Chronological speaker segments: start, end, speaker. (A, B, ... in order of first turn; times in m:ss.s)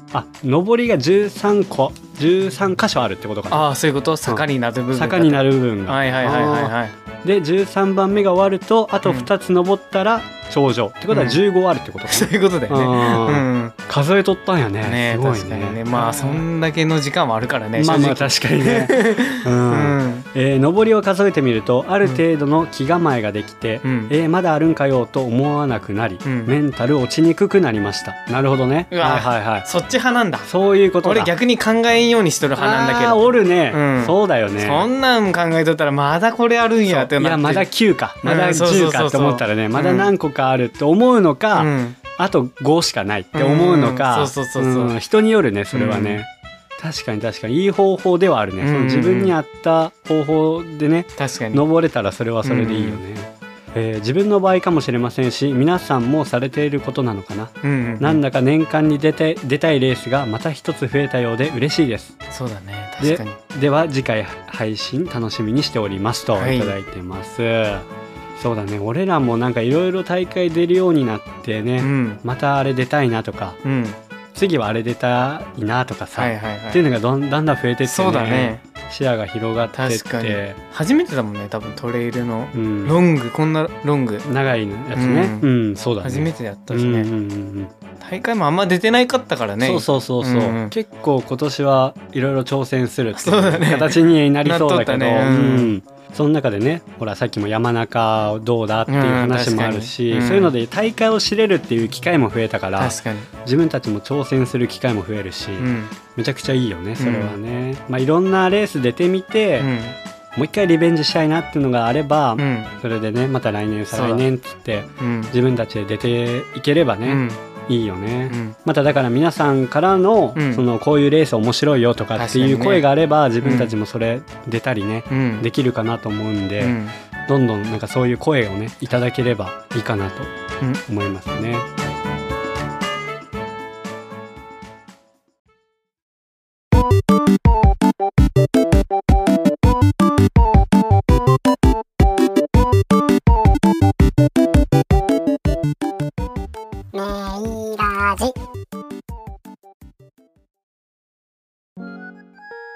0:00.1-0:03.7 A
0:03.5-0:06.9 B
0:04.2-0:16.4 A
0:11.1-0:11.4 B
0:12.1-0:13.7 B
0:14.8-0:20.2 B
0:17.8-0:29.7 A
0:23.8-0:24.1 B
0:26.2-0:26.5 B
0:28.9-0:30.5 B
0:30.5-0:31.3 A
0:31.0-0:37.7 B
0:32.6-0:34.9 A
0:36.9-1:02.2 A
0:38.2-0:40.1 B
0:41.6-0:42.0 B
0:43.3-0:44.9 B
0:45.7-0:46.2 B
0:48.6-0:49.3 B
0:51.2-0:51.6 B
0:52.4-0:53.0 B
0:57.6-0:58.2 B
1:02.3-1:03.4 B
1:03.0-1:13.6 A
1:06.4-1:06.7 B
1:11.8-1:12.2 B
1:13.6-1:14.0 B
1:14.3-1:20.6 A
1:16.1-1:16.8 B
1:17.8-1:18.6 B
1:19.7-1:24.2 B
1:22.5-1:23.0 A
1:24.2-1:27.7 A
1:24.9-1:25.5 B
1:26.0-1:27.1 B
1:28.0-1:30.7 B
1:29.6-1:49.7 A
1:33.1-1:35.7 B
1:38.9-1:40.5 B
1:42.8-1:43.3 B
1:45.6-1:45.9 B
1:47.0-1:47.3 B
1:49.6-1:50.0 B
1:50.3-2:10.3 A
1:52.4-1:52.7 B
1:53.9-1:54.2 B
1:55.0-1:55.3 B
1:57.0-1:57.4 B
1:58.3-1:58.5 B
2:00.3-2:00.6 B
2:02.2-2:02.9 B
2:03.4-2:03.7 B
2:05.1-2:05.4 B
2:06.6-2:06.9 B
2:10.9-2:11.7 A